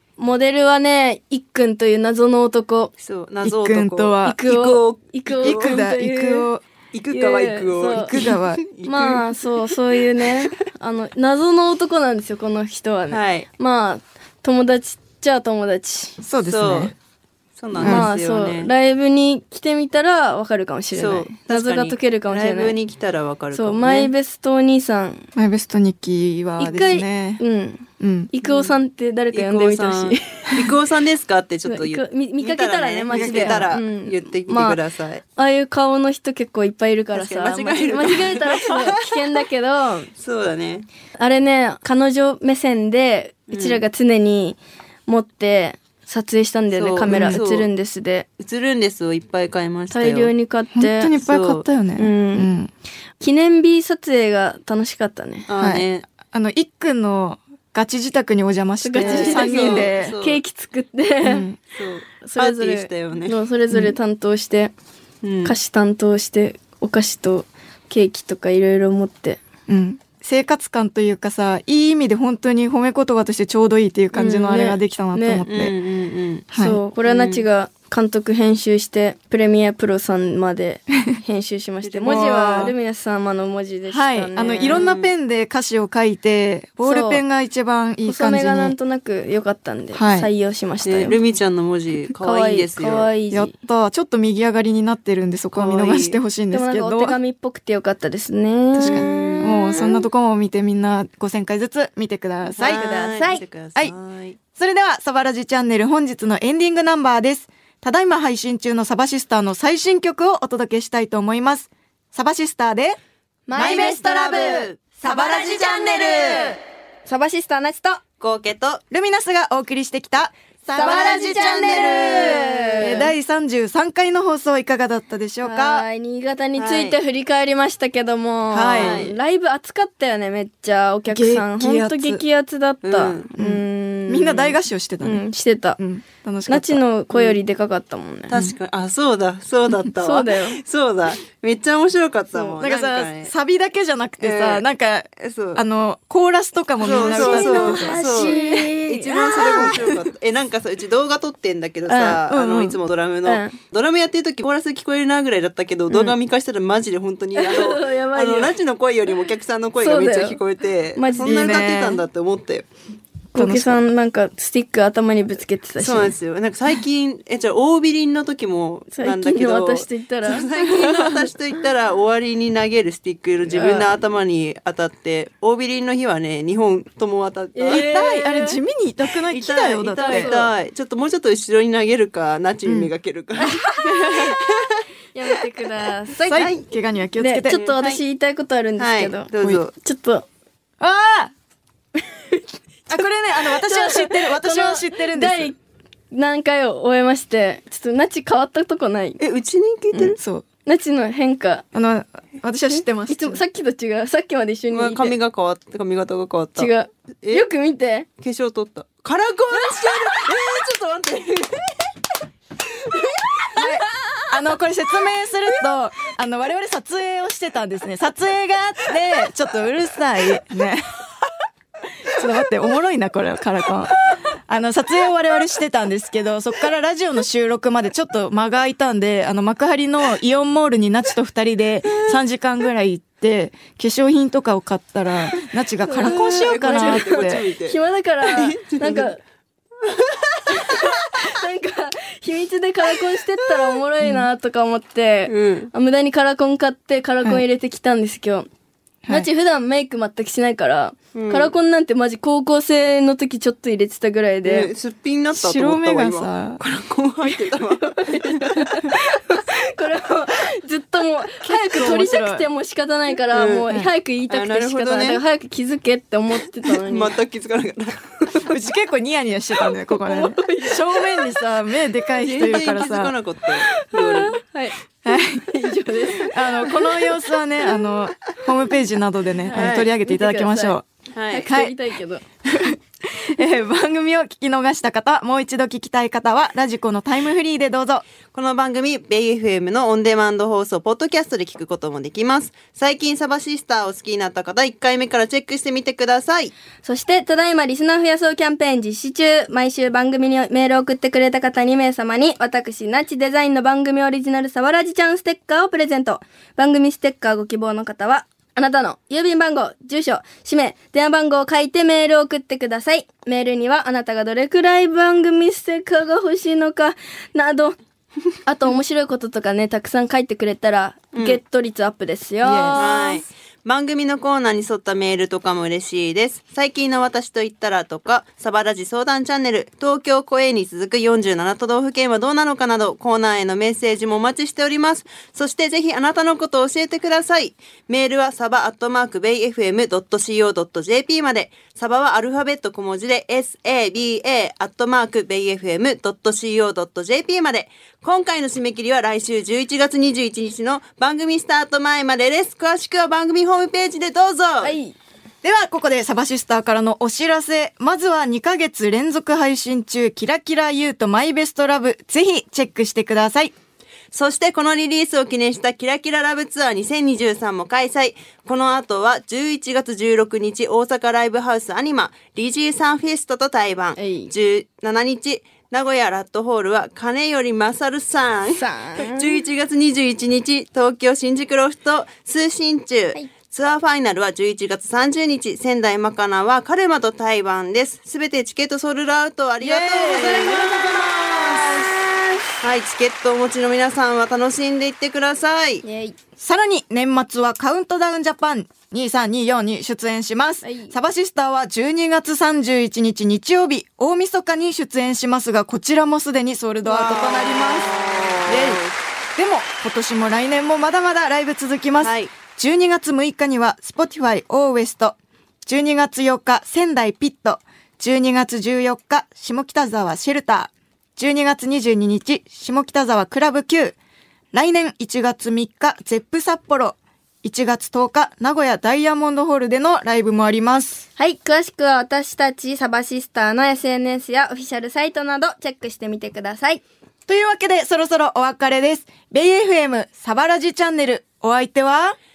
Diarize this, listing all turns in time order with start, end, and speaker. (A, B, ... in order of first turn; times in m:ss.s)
0:00.2-0:02.9 A
0:03.0-0:05.8 B
0:03.4-0:04.4 C
0:04.2-0:06.5 A
0:05.4-0:06.6 C
0:06.9-0:09.3 B
0:07.1-0:08.2 A
0:07.9-0:08.6 C
0:08.8-0:16.2 A
0:13.1-0:13.5 B
0:16.2-0:17.0 C
0:16.4-0:16.9 B
0:17.6-0:18.7 B
0:17.8-0:22.8 A
0:17.8-0:18.1 C
0:20.9-0:24.1 B
0:23.5-0:25.3 A
0:25.4-0:27.4 C
0:26.6-0:30.6 A
0:28.0-0:28.3 C
0:28.4-0:28.8 B
0:29.3-0:35.2 B
0:31.7-0:34.8 A
0:33.1-0:33.7 C
0:35.4-0:40.1 A
0:37.1-0:39.2 B
0:40.2-0:40.9 B
0:41.2-0:48.3 A
0:43.5-0:43.8 B
0:46.7-0:47.7 B
0:47.1-0:47.4 C
0:48.4-0:50.3 B
0:49.9-0:51.1 A
0:50.7-0:52.7 C
0:51.2-0:51.6 B
0:52.0-0:52.5 A
0:53.2-0:55.5 A
0:55.5-0:56.1 B
0:55.6-1:00.2 C
0:58.8-1:01.5 A
0:59.0-1:00.4 B
1:01.2-1:01.6 C
1:01.7-1:03.4 B
1:02.2-1:04.7 A
1:05.2-1:05.6 B
1:05.4-1:09.4 A
1:09.7-1:15.7 C
1:14.1-1:15.4 A
1:15.5-1:16.5 B
1:16.5-1:16.8 C
1:16.6-1:24.8 A
1:17.0-1:17.4 B
1:21.8-1:22.8 B
1:22.1-1:22.8 C
1:23.9-1:28.8 C
1:24.7-1:25.1 B
1:26.8-1:27.2 A
1:28.0-1:31.2 A
1:29.9-1:30.3 C
1:30.8-1:33.1 B
1:32.2-1:33.5 A
1:33.3-1:37.2 C
1:35.6-1:36.2 B
1:36.5-1:39.9 A
1:38.7-1:42.9 C
1:38.8-1:40.0 B
1:42.6-1:43.4 A
1:42.6-1:44.4 B
1:44.6-1:53.0 C
1:53.5-1:54.7 A
1:53.5-1:54.0 C
1:53.6-1:56.6 B
1:55.0-1:55.5 C
1:57.0-1:58.0 A
1:58.2-1:58.8 B
1:58.9-2:05.9 C
2:00.7-2:03.1 A
2:00.8-2:03.0 B
2:05.4-2:15.8 A
2:06.6-2:07.0 B
2:08.5-2:09.1 C
2:08.7-2:09.1 B
2:11.1-2:12.2 C
2:12.8-2:13.3 B
2:13.4-2:15.2 C
2:15.8-2:16.8 C
2:16.5-2:18.4 A
2:17.1-2:17.4 B
2:18.3-2:23.3 B
2:20.0-2:20.6 A
2:22.3-2:28.7 C
2:24.2-2:24.7 B
2:25.2-2:25.6 B
2:26.8-2:42.7 B
2:27.0-2:29.7 A
2:29.2-2:30.0 C
2:31.9-2:32.8 C
2:33.3-2:33.6 A
2:37.4-2:38.6 A
2:39.8-2:40.4 A
2:41.0-2:41.6 A
2:41.2-2:42.0 C
2:43.4-2:43.9 C
2:43.4-2:46.2 A
2:45.8-2:57.8 B
2:48.9-2:51.0 A
2:53.5-2:53.9 A
2:57.6-2:58.6 A
2:57.7-3:00.4 C
2:59.3-3:04.8 B
2:59.9-3:00.5 A
3:03.4-3:04.2 A
3:03.4-3:04.4 C
3:05.1-3:06.5 A
3:06.2-3:06.7 B
3:06.3-3:07.6 C
3:07.2-3:10.3 A
3:07.5-3:08.0 B
3:08.8-3:09.7 B
3:10.8-3:11.3 C
3:12.9-3:15.5 C
3:13.5-3:15.6 A
3:16.1-3:19.2 A
3:19.2-3:20.2 B
3:20.0-3:20.4 C
3:20.6-3:21.7 A
3:21.7-3:23.4 C
3:22.7-3:25.2 A
3:24.7-3:26.7 B
3:26.6-3:28.1 A
3:28.2-3:31.8 B
3:33.6-3:40.8 C
3:42.0-3:57.4 C
3:55.8-3:59.2 A
3:56.0-3:59.1 B
3:59.8-4:00.7 B
4:00.5-4:08.5 A
4:04.0-4:04.3 C
4:05.3-4:05.7 B
4:09.1-4:14.7 A
4:11.1-4:11.5 B
4:14.4-4:18.8 B
4:15.4-4:16.6 C
4:17.8-4:27.2 A
4:21.4-4:22.5 C
4:23.3-4:23.7 B
4:24.3-4:25.2 B
4:26.6-4:28.5 B
4:28.4-4:33.1 C
4:29.7-4:31.4 A
4:32.2-4:34.4 B
4:33.6-4:37.8 A
4:35.0-4:40.8 C
4:39.5-4:40.8 A
4:39.5-4:39.9 B
4:41.1-4:41.5 B
4:41.3-4:42.2 A
4:41.4-4:41.7 C
4:42.5-4:48.0 C
4:48.3-4:56.5 B
4:56.8-5:17.8 A
5:18.4-5:23.2 A
5:21.1-5:21.4 B
5:22.4-5:22.9 C
5:22.8-5:54.8 B
5:54.6-5:55.0 A
5:55.4-6:03.5 C
6:04.1-6:31.9 B
6:14.0-6:14.3 A
6:18.5-6:19.4 A
6:29.6-6:32.0 C
6:32.6-6:35.8 B
6:35.8-6:36.2 A
6:36.4-7:04.0 C
6:40.6-6:40.9 A
6:46.8-6:49.0 B
6:52.0-6:52.3 B
7:04.5-7:11.1 C
7:11.2-7:16.8 A
7:17.3-7:22.2 C